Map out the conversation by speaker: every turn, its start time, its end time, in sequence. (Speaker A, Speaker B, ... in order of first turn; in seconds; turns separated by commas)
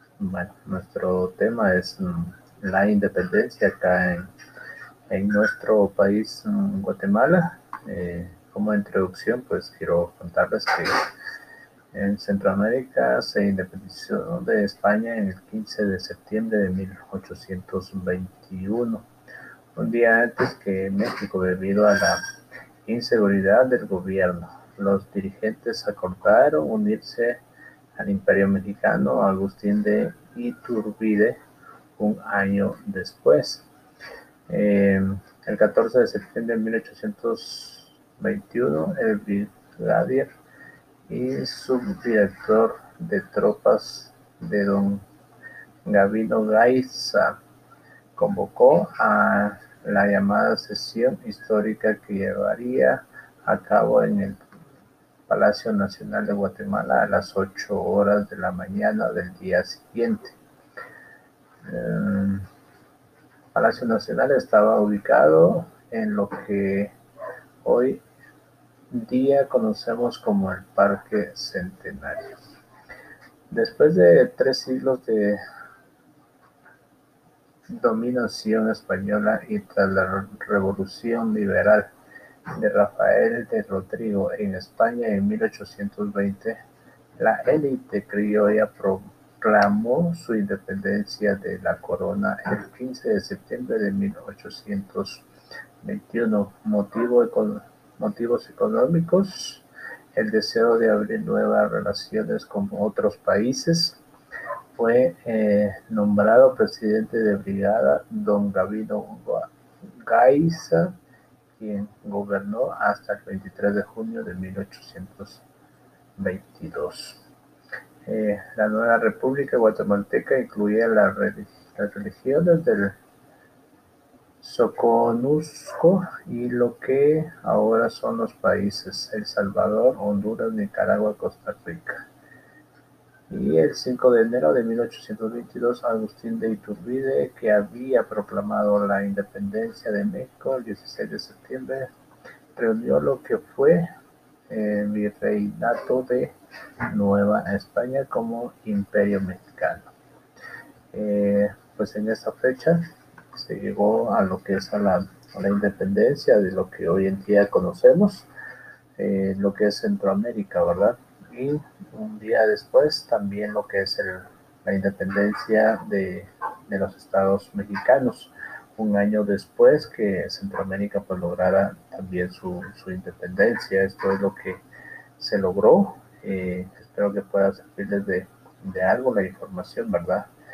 Speaker A: 0.2-4.3, Speaker A: 5.1-11.1, Speaker A: 11.9-19.0, Speaker A: 19.8-22.2, Speaker A: 22.9-27.4, Speaker A: 27.9-31.4, Speaker A: 32.0-33.6, Speaker A: 34.5-40.3, Speaker A: 41.1-45.0, Speaker A: 45.9-47.4, Speaker A: 48.1-54.4, Speaker A: 55.3-60.4, Speaker A: 61.6-62.5, Speaker A: 63.5-66.9, Speaker A: 67.6-68.0, Speaker A: 68.9-72.3, Speaker A: 73.5-75.4, Speaker A: 77.7-81.9, Speaker A: 82.5-86.6, Speaker A: 87.2-95.2, Speaker A: 95.8-104.0, Speaker A: 104.8-110.9, Speaker A: 111.6-115.4, Speaker A: 116.2-117.2, Speaker A: 118.0-123.0, Speaker A: 124.4-132.0, Speaker A: 133.3-141.9, Speaker A: 142.6-143.9, Speaker A: 144.5-149.9, Speaker A: 150.9-158.3, Speaker A: 159.0-174.6, Speaker A: 175.2-180.3